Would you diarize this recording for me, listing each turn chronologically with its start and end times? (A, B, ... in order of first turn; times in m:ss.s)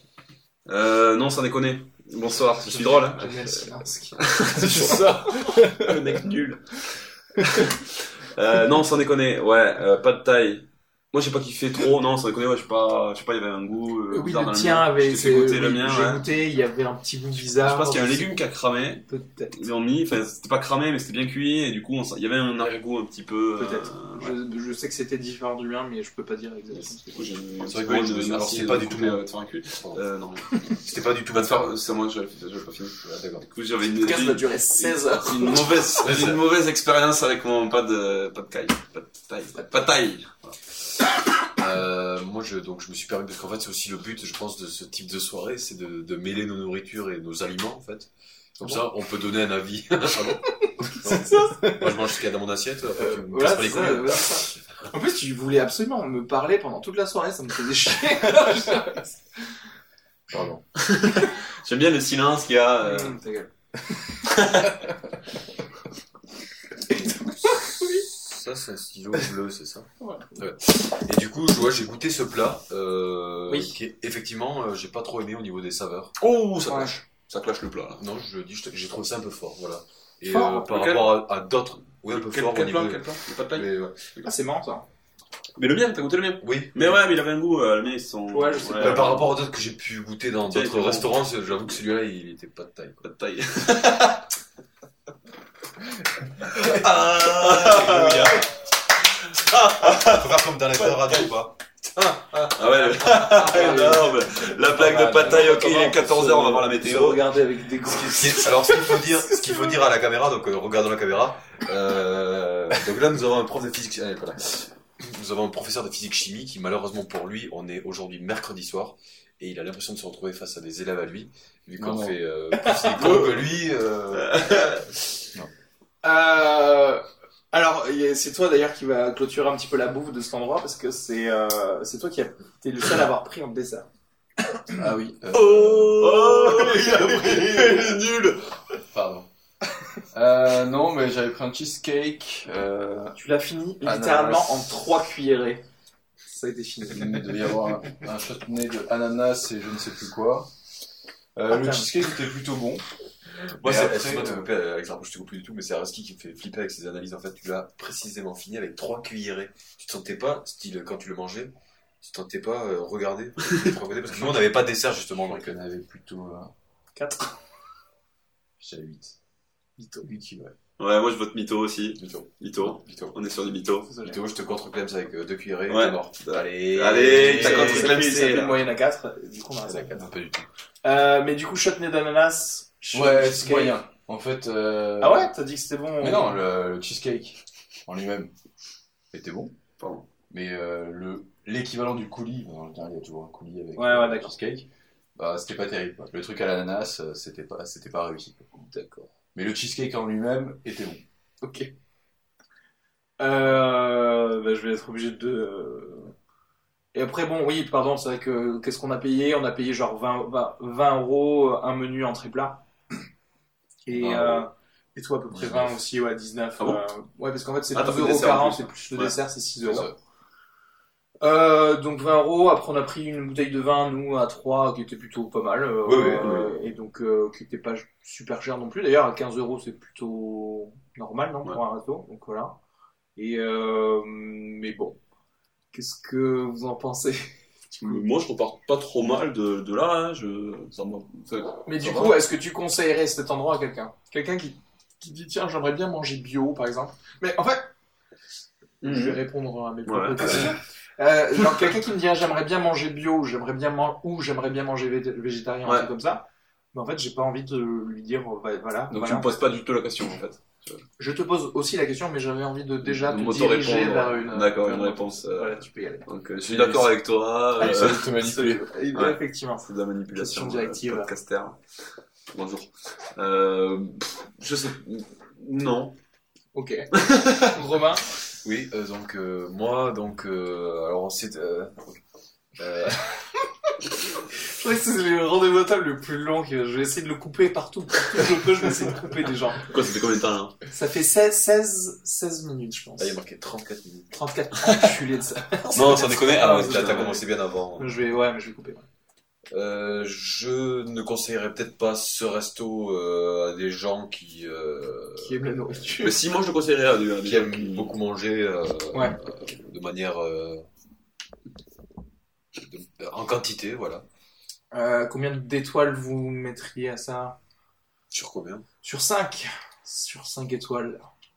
0:00.7-0:16.2 A
0:02.6-0:05.0 B
0:04.5-0:06.2 C
0:14.1-0:18.3 B
0:17.4-0:24.4 A
0:19.1-0:19.6 B
0:23.6-0:27.2 B
0:26.7-0:30.5 A
0:27.6-0:29.2 D
0:30.8-0:31.7 D
0:31.3-0:40.6 A
0:33.0-0:33.4 D
0:33.9-0:35.6 B
0:36.0-0:36.4 D
0:41.6-0:54.6 D
0:50.6-0:51.7 B
0:53.0-0:59.2 B
1:00.3-1:00.6 C
1:00.8-1:03.2 A
1:02.8-1:03.5 B
1:04.2-1:04.8 A
1:07.0-1:16.1 D
1:07.0-1:08.0 B
1:10.0-1:10.2 B
1:13.5-1:13.7 B
1:16.2-1:18.0 A
1:16.7-1:17.0 B
1:18.0-1:23.9 D
1:20.2-1:20.6 B
1:20.4-1:21.2 A
1:22.1-1:24.3 A
1:24.2-1:24.8 B
1:25.6-1:29.3 A
1:26.4-1:26.9 D
1:28.3-1:29.2 B
1:28.8-1:33.0 D
1:30.5-1:31.3 A
1:33.0-1:34.2 A
1:36.5-1:38.5 A
1:36.6-1:38.5 D
1:39.2-1:41.2 A
1:39.8-1:41.6 D
1:42.0-1:49.8 B
1:42.5-1:47.2 A
1:48.0-2:04.8 D
2:01.8-2:02.2 C
2:02.9-2:03.6 A
2:04.1-2:04.8 A
2:06.0-2:13.9 B
2:14.4-2:14.7 B
2:14.7-2:16.2 C
2:15.3-2:18.6 A
2:16.4-2:16.9 B
2:17.0-2:17.3 D
2:18.8-2:19.3 C
2:20.1-2:23.2 C
2:23.1-2:25.6 B
2:23.8-2:24.7 C
2:26.3-2:27.4 B
2:26.9-2:30.5 C
2:31.4-2:32.8 C
2:31.5-2:31.9 B
2:33.6-2:45.6 D
2:33.6-2:34.5 C
2:44.1-2:44.5 C
2:45.1-2:46.5 C
2:47.0-2:47.4 B
2:48.6-2:49.2 C
2:49.8-2:50.1 B
2:50.0-2:50.5 C
2:50.8-2:53.9 A
2:52.6-2:52.9 D
2:53.9-2:54.2 B
2:54.0-2:57.9 D
2:55.7-2:58.7 A
2:57.1-3:00.1 B
2:59.8-3:00.5 D
3:00.8-3:03.8 B
3:02.9-3:05.3 C
3:05.0-3:06.4 B
3:06.0-3:08.3 C
3:09.1-3:09.6 C
3:09.8-3:10.0 A
3:10.3-3:18.5 C
3:13.8-3:14.3 B
3:18.6-3:19.1 B
3:19.3-3:21.0 C
3:21.4-3:21.7 B
3:23.2-3:26.1 B
3:26.9-3:32.6 B
3:33.8-3:39.9 B
3:34.0-3:34.3 C
3:34.0-3:34.4 D
3:35.3-3:35.7 D
3:37.7-3:39.1 A
3:41.2-3:52.6 B
3:45.8-3:46.5 A
3:53.2-3:55.0 B
3:55.7-3:57.3 B
3:57.7-4:02.2 A
4:01.6-4:07.7 B
4:08.8-4:09.2 A
4:08.8-4:19.4 B
4:09.8-4:10.6 A
4:15.6-4:15.9 A
4:18.9-4:20.8 A
4:21.0-4:26.0 B
4:22.8-4:28.1 A
4:26.5-4:26.9 C
4:27.6-4:28.7 C
4:27.6-4:31.1 B
4:28.9-4:31.6 A
4:32.3-4:36.0 A
4:36.5-4:36.9 B
4:36.9-4:37.6 A
4:37.5-4:38.0 B
4:38.4-4:42.0 D
4:42.6-4:43.2 D
4:44.4-4:49.7 B
4:49.6-4:50.6 A
4:50.7-4:53.2 B
4:53.0-4:54.1 D
4:54.1-4:58.8 B
4:55.7-4:58.1 D
4:55.9-4:57.2 A
4:59.5-5:05.5 D
5:05.2-5:06.2 B
5:06.0-5:07.9 A
5:07.2-5:10.7 D
5:12.5-5:14.0 D
5:14.7-5:17.4 B
5:18.1-5:18.6 D
5:18.8-5:21.1 B